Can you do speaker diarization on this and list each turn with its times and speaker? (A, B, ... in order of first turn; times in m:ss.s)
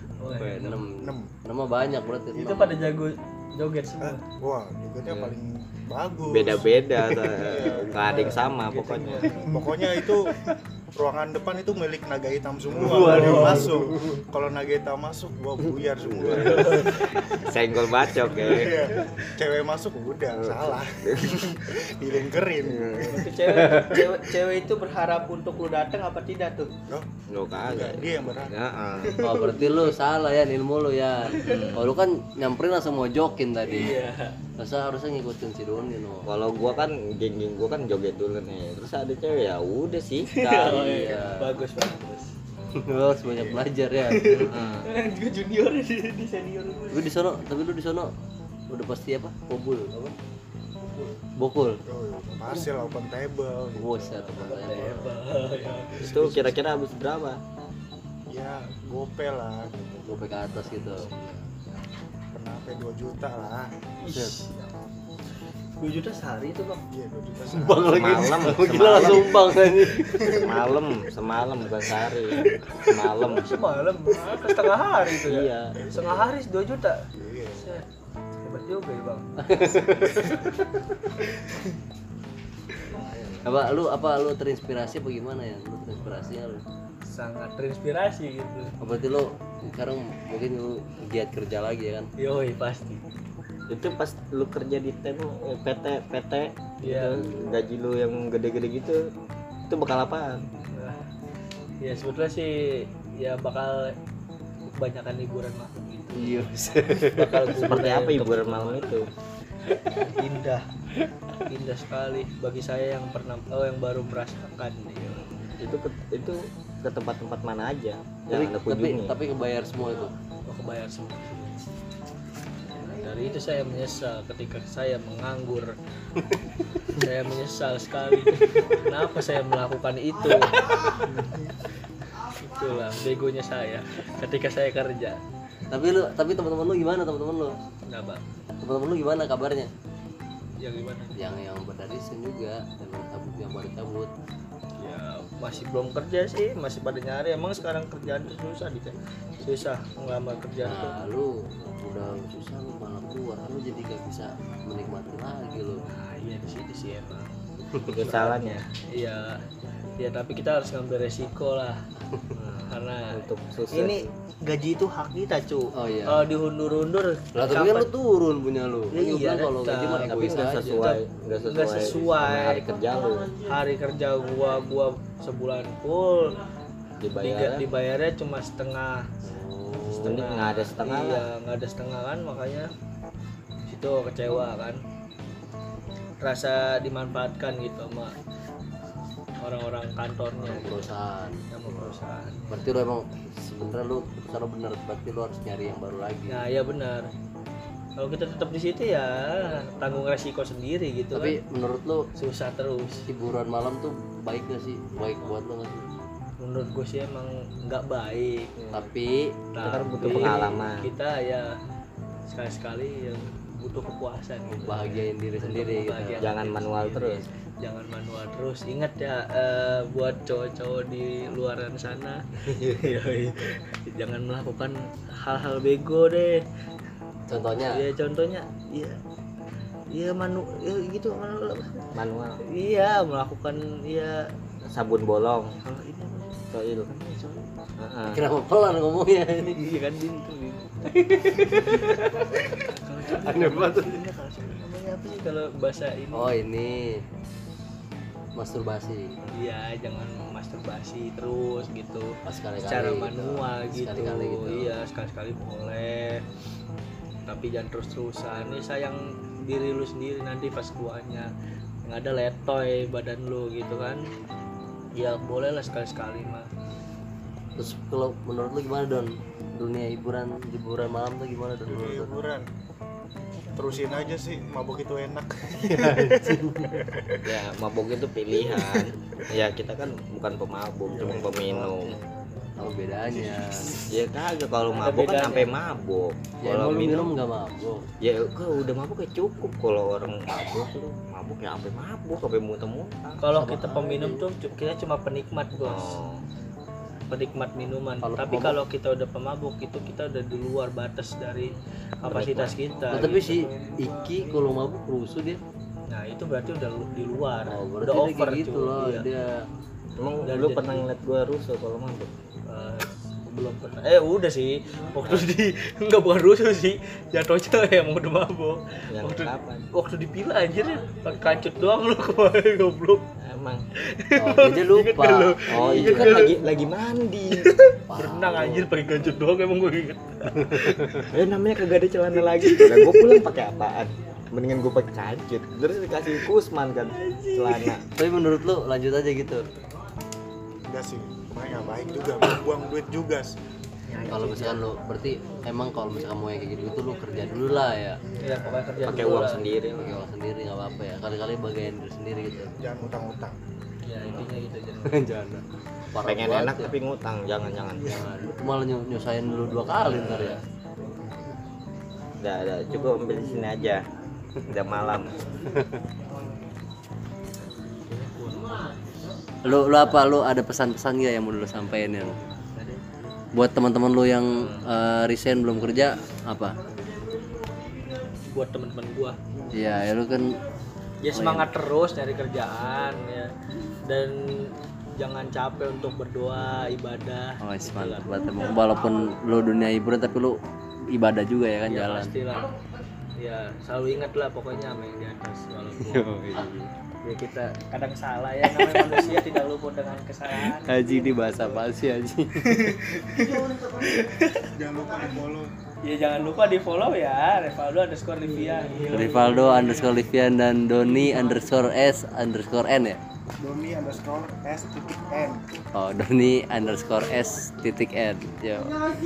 0:00.2-0:00.8 A
0:00.4-0:02.9 B
0:00.9-0:01.3 C
0:02.3-0:04.2 A
0:04.0-0:10.4 C
0:06.3-0:09.5 D
0:07.9-0:10.0 A
0:10.9-0:17.5 C
0:12.8-0:14.2 B
0:12.9-0:13.7 A
0:16.0-0:16.8 D
0:16.3-0:17.4 A
0:17.3-0:18.8 D
0:18.2-0:19.1 A
0:18.3-0:23.3 C
0:20.4-0:21.5 D
0:22.6-0:23.2 D
0:23.1-0:26.7 A
0:23.5-0:24.0 B
0:26.9-0:28.5 C
0:27.3-0:29.3 D
0:29.2-0:29.8 A
0:29.2-0:34.0 B
0:31.3-0:31.8 A
0:31.4-0:31.9 D
0:33.7-0:34.4 A
0:34.6-0:36.3 B
0:36.2-0:41.2 D
0:40.3-0:42.3 A
0:40.6-0:41.5 B
0:42.7-0:44.4 B
0:43.4-0:43.6 C
0:44.0-0:47.1 A
0:44.3-0:44.9 D
0:46.9-0:48.1 B
0:48.7-0:50.0 B
0:51.4-0:51.8 B
0:51.8-0:55.1 C
0:53.7-0:55.1 B
0:54.4-0:56.1 A
0:56.0-0:56.6 C
0:56.0-0:57.4 D
0:58.3-1:01.6 C
1:00.0-1:01.1 B
1:02.3-1:03.9 C
1:04.0-1:04.7 A
1:04.0-1:04.4 B
1:05.8-1:06.8 A
1:06.9-1:08.2 C
1:07.5-1:10.4 B
1:07.8-1:09.5 D
1:10.1-1:10.5 C
1:10.2-1:13.5 D
1:13.1-1:17.8 A
1:15.2-1:15.9 D
1:15.8-1:16.3 C
1:17.1-1:17.8 C
1:18.4-1:19.4 A
1:19.4-1:20.4 B
1:19.9-1:20.4 C
1:22.8-1:23.5 C
1:23.4-1:26.6 B
1:27.1-1:28.7 A
1:28.8-1:32.1 B
1:32.2-1:33.0 A
1:33.7-1:39.1 D
1:36.8-1:37.2 A
1:39.7-1:40.4 D
1:40.7-1:41.0 A
1:41.8-1:44.0 A
1:44.7-1:49.1 A
1:46.1-1:47.6 B
1:47.6-1:49.1 D
1:49.8-1:50.7 A
1:51.4-1:55.5 A
1:55.6-1:59.1 D
1:58.3-2:00.1 B
2:00.4-2:01.6 A
2:02.8-2:05.7 A
2:06.9-2:11.2 A
2:12.2-2:15.2 A
2:15.7-2:17.6 B
2:17.9-2:18.2 A
2:18.6-2:19.7 B
2:20.6-2:21.2 A
2:21.2-2:24.1 B
2:24.8-2:31.0 A
2:30.6-2:35.8 B
2:35.9-2:39.4 A
2:37.8-2:38.6 D
2:40.0-2:41.8 A
2:42.3-2:44.1 D
2:42.7-2:47.9 A
2:45.7-2:46.3 B
2:47.3-2:50.9 B
2:48.9-2:52.6 A
2:50.1-2:53.3 D
2:53.4-2:56.4 A
2:57.0-2:57.7 D
2:57.2-2:59.1 A
2:59.2-3:00.2 B
2:59.8-3:02.7 A
3:00.0-3:01.2 D
3:03.6-3:04.8 A
3:06.2-3:08.1 A
3:09.4-3:10.9 A
3:10.4-3:16.4 B
3:11.5-3:12.7 A
3:16.3-3:17.1 A
3:18.0-3:21.4 A
3:21.1-3:22.1 B
3:22.2-3:23.1 A
3:23.1-3:25.9 B
3:26.4-3:28.5 A
3:28.6-3:28.8 D
3:28.7-3:29.4 B
3:29.5-3:31.5 A
3:29.6-3:30.9 D
3:30.0-3:30.4 B
3:32.3-3:46.4 A
3:34.5-3:36.3 B
3:36.2-3:37.2 D
3:47.3-3:47.8 B
3:47.6-3:49.0 A
3:49.9-3:51.9 A
3:51.9-3:52.4 D
3:52.4-3:54.3 A
3:54.6-3:55.6 D
3:55.6-3:57.5 A
3:56.5-3:56.9 D
3:57.8-3:58.2 D
3:58.1-3:59.7 B
3:59.4-4:06.3 A
4:03.1-4:04.0 B
4:06.1-4:07.0 B
4:08.4-4:09.2 B
4:09.3-4:16.2 A
4:12.2-4:14.7 B
4:17.3-4:21.3 A
4:21.8-4:24.1 A
4:25.0-4:26.5 A
4:27.6-4:32.2 B
4:31.6-4:32.5 C
4:33.5-4:37.3 C
4:35.6-4:36.8 B
4:37.2-4:42.0 D
4:38.5-4:38.9 C
4:40.9-4:43.9 C
4:42.6-4:43.8 B
4:43.9-4:47.1 D
4:44.7-4:45.5 A
4:46.4-4:47.8 B
4:48.0-4:53.2 D
4:53.2-4:56.0 A
4:53.3-4:54.3 B
4:55.6-4:56.2 D
4:57.1-5:03.3 A
4:58.0-4:58.6 B
5:02.0-5:02.5 D
5:02.9-5:05.4 B
5:05.9-5:09.1 A
5:07.4-5:09.4 B
5:10.0-5:12.1 D
5:10.2-5:10.9 A
5:12.5-5:23.1 A
5:18.9-5:19.7 D
5:23.2-5:23.6 D
5:23.8-5:26.4 A
5:24.1-5:26.2 B
5:25.5-5:27.5 D
5:27.4-5:31.1 A
5:27.9-5:28.7 B
5:30.4-5:31.1 B
5:31.1-5:37.8 D
5:32.2-5:33.2 A
5:36.9-5:37.8 A
5:38.0-5:39.4 B
5:40.6-5:43.3 C
5:43.9-5:44.7 A
5:43.9-5:45.3 C
5:44.0-5:48.0 B
5:48.0-5:49.0 C
5:48.2-5:49.4 A
5:48.8-5:49.9 D
5:49.8-5:52.6 B
5:52.3-5:53.4 C
5:53.8-5:55.0 A
5:54.8-5:56.7 B
5:56.0-5:58.0 D
5:57.8-6:00.4 B
5:58.0-5:58.3 C
5:59.8-6:00.4 A
5:59.8-6:00.4 D
6:00.8-6:01.4 C
6:02.2-6:03.8 D
6:04.4-6:05.2 D
6:05.4-6:05.8 B
6:07.9-6:08.8 A
6:09.4-6:12.2 B
6:12.4-6:13.1 A
6:13.3-6:16.6 B
6:18.1-6:19.2 A
6:19.5-6:20.4 B
6:21.0-6:23.3 A
6:21.1-6:21.5 B
6:23.8-6:28.3 A
6:27.4-6:32.1 B
6:31.7-6:32.5 A
6:33.2-6:36.1 A
6:35.8-6:36.7 B
6:37.0-6:41.6 A
6:38.6-6:38.9 B
6:40.4-6:42.9 B
6:42.4-6:44.5 A
6:44.5-6:45.5 C
6:45.8-6:50.0 A
6:48.9-6:53.0 B
6:50.9-6:51.2 A
6:53.4-6:55.4 C
6:55.7-6:58.8 B